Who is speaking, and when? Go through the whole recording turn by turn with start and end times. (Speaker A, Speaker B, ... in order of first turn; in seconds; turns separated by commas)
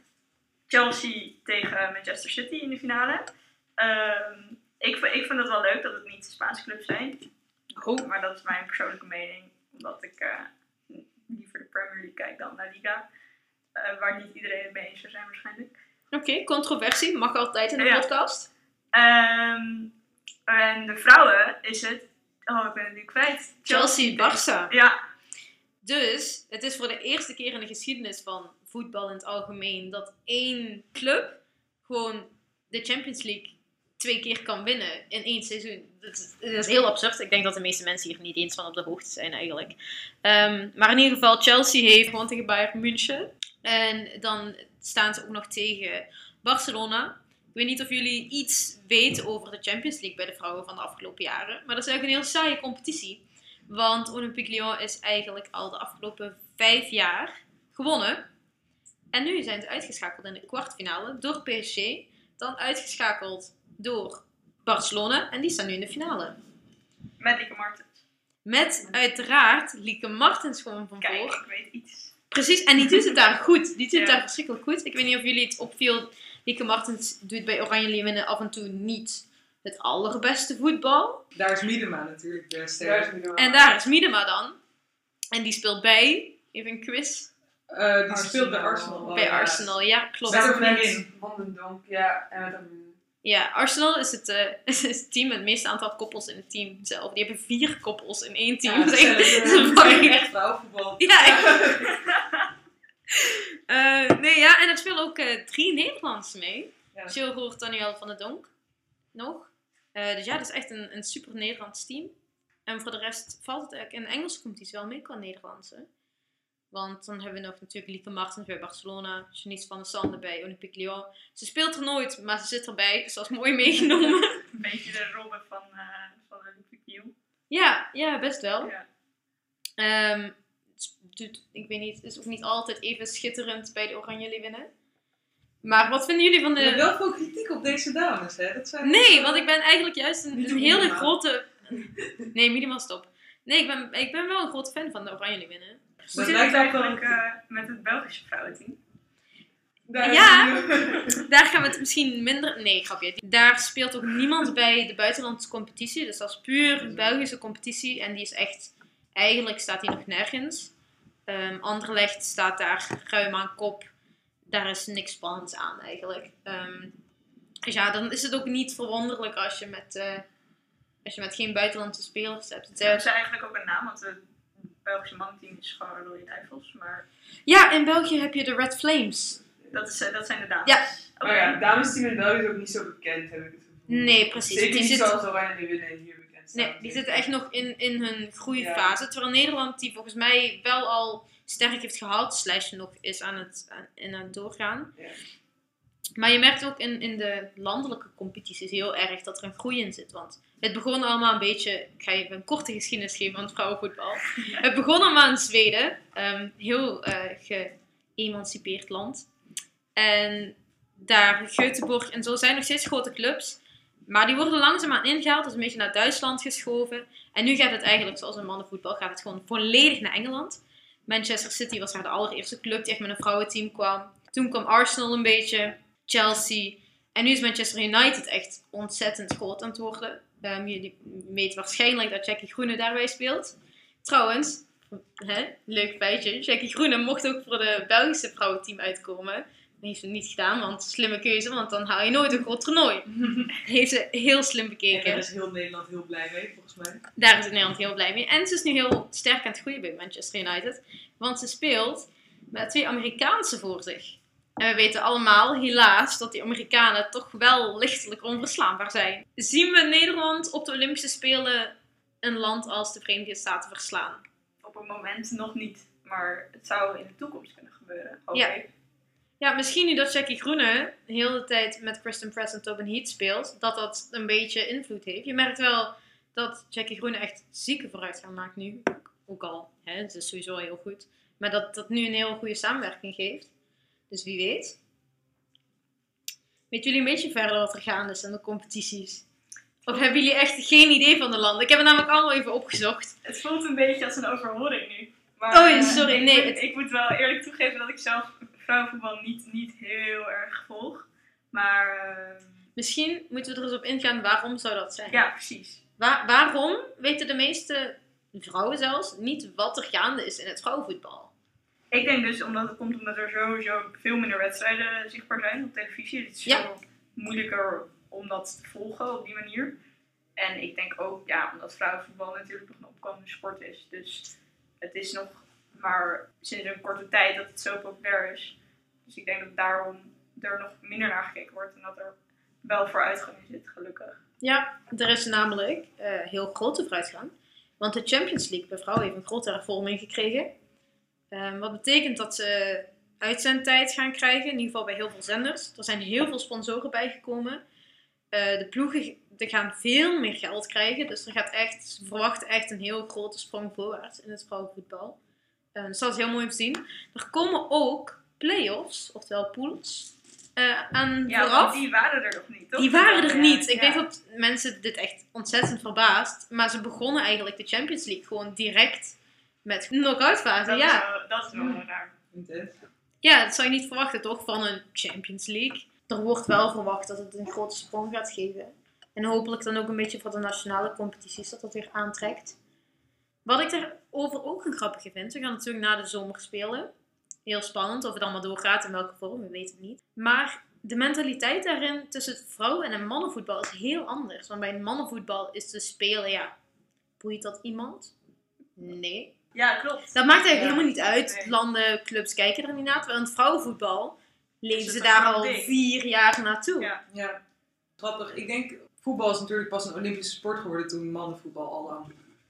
Speaker A: 0.7-7.3, Speaker B: 7.8-8.1, Speaker A: 7.8-13.0, Speaker A: 13.7-15.7, Speaker B: 16.1-18.5, Speaker A: 17.8-18.1, Speaker A: 18.9-19.9, Speaker A: 20.5-25.0, Speaker B: 23.7-24.7, Speaker B: 25.8-58.2, Speaker B: 59.1-66.4, Speaker A: 67.2-68.0, Speaker B: 68.4-71.4, Speaker A: 71.0-72.1, Speaker B: 72.3-81.2, Speaker A: 73.9-74.2, Speaker C: 81.3-83.1, Speaker D: 82.8-83.7, Speaker B: 83.3-84.6, Speaker B: 85.3-87.3, Speaker C: 87.7-89.7, Speaker D: 88.1-89.2, Speaker B: 89.1-90.8, Speaker C: 90.2-91.1, Speaker D: 90.3-93.0, Speaker B: 93.2-100.2, Speaker C: 98.6-101.7, Speaker B: 101.0-101.8, Speaker D: 101.3-101.8, Speaker B: 103.1-108.5, Speaker B: 109.1-112.1, Speaker B: 112.7-115.9, Speaker B: 116.7-124.4, Speaker A: 124.4-127.1, Speaker B: 127.5-128.7, Speaker B: 129.8-134.7, Speaker B: 135.6-136.9, Speaker C: 136.6-139.4, Speaker B: 138.8-146.2, Speaker D: 140.3-141.1, Speaker C: 146.1-147.2, Speaker A: 146.1-148.8, Speaker D: 149.9-151.2, Speaker B: 150.0-160.7, Speaker B: 161.3-163.9, Speaker B: 164.5-166.9, Speaker B: 167.7-170.2, Speaker B: 171.0-173.0, Speaker A: 172.8-174.2, Speaker A: 174.7-177.0, Speaker B: 177.5-179.4, Speaker A: 179.7-181.6, Speaker D: 181.2-187.3, Speaker B: 183.9-185.1, Speaker B: 186.5-194.9, Speaker D: 188.5-188.9, Speaker B: 196.2-209.3, Speaker B: 209.9-245.2, Speaker C: 243.1-243.5, Speaker C: 244.9-247.0, Speaker B: 247.2-264.2, Speaker A: 264.6-268.7, Speaker B: 269.4-283.5, Speaker B: 284.1-284.8, Speaker B: 286.7-289.2, Speaker B: 289.9-293.1, Speaker A: 293.2-302.5, Speaker B: 295.5-296.6, Speaker B: 302.8-305.3, Speaker A: 305.1-305.8, Speaker B: 306.0-311.3, Speaker A: 311.9-319.7, Speaker A: 320.4-334.2, Speaker B: 334.4-340.5, Speaker B: 341.3-347.6, Speaker B: 348.3-355.2, Speaker B: 355.7-361.8, Speaker A: 361.3-364.0, Speaker B: 362.8-371.0, Speaker A: 370.6-372.1, Speaker C: 371.5-372.7, Speaker B: 373.2-382.6, Speaker B: 383.4-386.9, Speaker B: 387.4-396.5, Speaker B: 397.2-398.1, Speaker B: 398.8-399.3, Speaker A: 399.5-401.5, Speaker B: 400.1-406.9, Speaker C: 400.5-400.8, Speaker A: 404.7-405.7, Speaker C: 407.1-407.4, Speaker C: 408.0-412.1